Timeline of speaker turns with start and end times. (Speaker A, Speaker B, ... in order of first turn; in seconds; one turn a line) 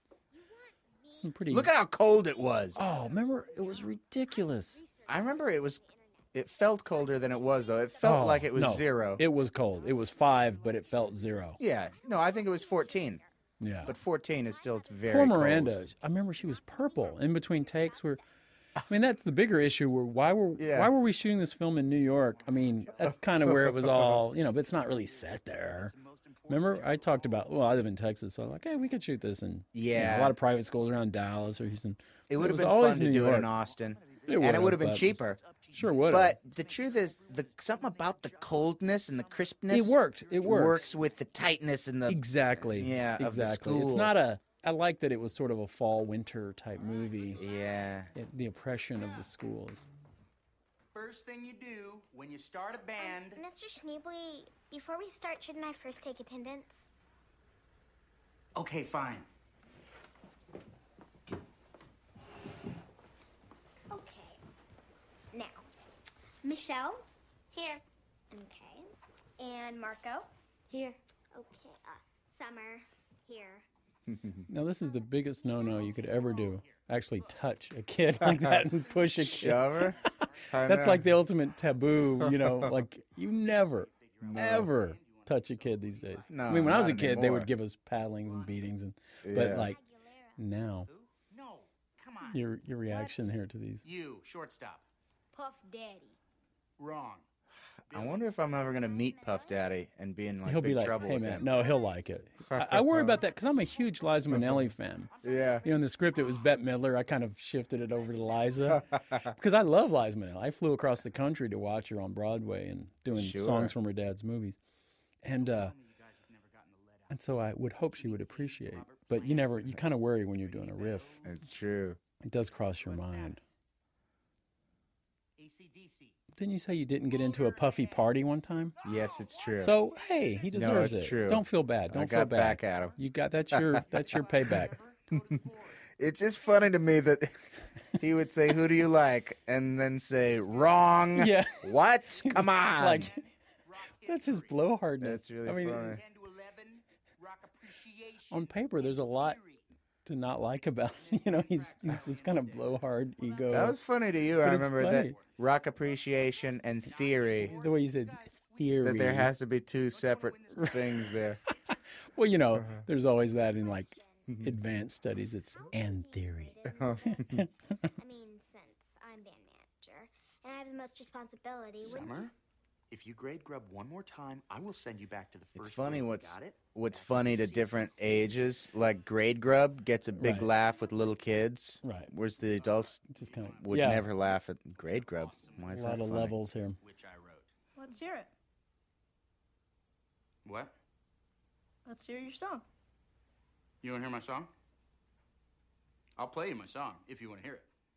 Speaker A: 0.3-1.6
Speaker B: 1.1-1.7
Speaker C: 1.5-2.8
Speaker B: 2.7-4.8
Speaker A: 2.7-8.2
Speaker C: 5.0-9.2
Speaker B: 8.0-11.6
Speaker A: 9.4-11.1
Speaker C: 11.6-13.2
Speaker A: 11.7-13.3
Speaker B: 13.6-13.9
Speaker C: 13.8-15.9
Speaker A: 14.4-15.2
Speaker B: 15.1-18.2
Speaker A: 16.6-17.1
Speaker B: 18.9-25.9
Speaker C: 20.6-20.9
Speaker D: 22.0-23.1
Speaker C: 23.4-24.2
Speaker D: 24.6-27.3
Speaker B: 26.5-33.5
Speaker C: 29.7-30.4
Speaker C: 32.3-35.4
Speaker D: 33.7-38.9
Speaker B: 34.3-35.2
Speaker B: 35.7-36.4
Speaker C: 36.0-44.1
Speaker B: 39.7-40.9
Speaker B: 42.1-47.4
Speaker C: 47.4-48.1
Speaker B: 48.1-49.9
Speaker D: 50.9-53.4
Speaker A: 53.0-56.9
Speaker D: 58.5-59.3
Speaker A: 63.9-64.4
Speaker A: 65.3-65.7
Speaker A: 66.4-68.9
Speaker A: 69.4-73.6
Speaker B: 74.5-89.8
Speaker C: 78.3-80.0
Speaker C: 80.5-81.1
Speaker C: 82.2-82.8
Speaker D: 83.7-86.3
Speaker C: 84.2-84.7
Speaker C: 86.3-87.5
Speaker C: 89.2-89.7
Speaker A: 89.5-90.4
Speaker B: 90.4-90.9
Speaker D: 90.9-92.4
Speaker B: 92.3-93.8
Speaker D: 93.8-94.8
Speaker E: 95.3-96.0
Speaker A: 95.4-96.1
Speaker D: 96.8-97.2
Speaker D: 97.9-98.3
Speaker C: 97.9-101.5
Speaker A: 98.9-99.6
Speaker B: 100.4-105.1
Speaker C: 102.5-103.2
Speaker C: 104.3-104.6
Speaker D: 105.2-105.7
Speaker C: 105.2-105.6
Speaker B: 105.6-114.6
Speaker C: 108.7-109.3
Speaker C: 113.1-113.7
Speaker B: 115.2-115.7
Speaker D: 115.3-121.3
Speaker B: 117.1-121.2
Speaker C: 121.2-122.0
Speaker B: 122.2-123.4
Speaker D: 122.5-123.4
Speaker D: 125.4-126.2
Speaker B: 126.3-128.7
Speaker D: 128.8-129.2
Speaker C: 128.8-129.7
Speaker B: 129.6-134.8
Speaker C: 130.5-132.9
Speaker C: 133.5-133.8
Speaker D: 134.4-135.8
Speaker C: 136.0-137.3
Speaker C: 138.0-143.1
Speaker B: 141.1-143.2
Speaker D: 143.7-144.6
Speaker B: 144.1-145.9
Speaker C: 145.0-146.0
Speaker D: 145.7-149.6
Speaker B: 148.3-149.4
Speaker B: 150.0-153.8
Speaker D: 151.1-153.4
Speaker C: 153.5-157.5
Speaker B: 154.4-155.2
Speaker D: 156.2-158.9
Speaker B: 157.4-159.3
Speaker C: 158.8-161.4
Speaker D: 160.0-160.8
Speaker B: 160.6-167.8
Speaker A: 163.6-164.4
Speaker A: 165.5-172.3
Speaker C: 166.7-167.0
Speaker D: 171.8-172.3
Speaker D: 172.9-177.6
Speaker C: 175.5-183.0
Speaker B: 180.2-180.5
Speaker B: 181.8-182.1
Speaker D: 182.6-184.0
Speaker B: 183.1-184.1
Speaker C: 183.6-186.3
Speaker D: 184.9-185.8
Speaker B: 185.7-186.8
Speaker D: 186.8-187.5
Speaker E: 187.8-188.3
Speaker D: 190.4-190.7
Speaker E: 191.8-192.6
Speaker D: 193.8-194.5
Speaker D: 196.2-197.7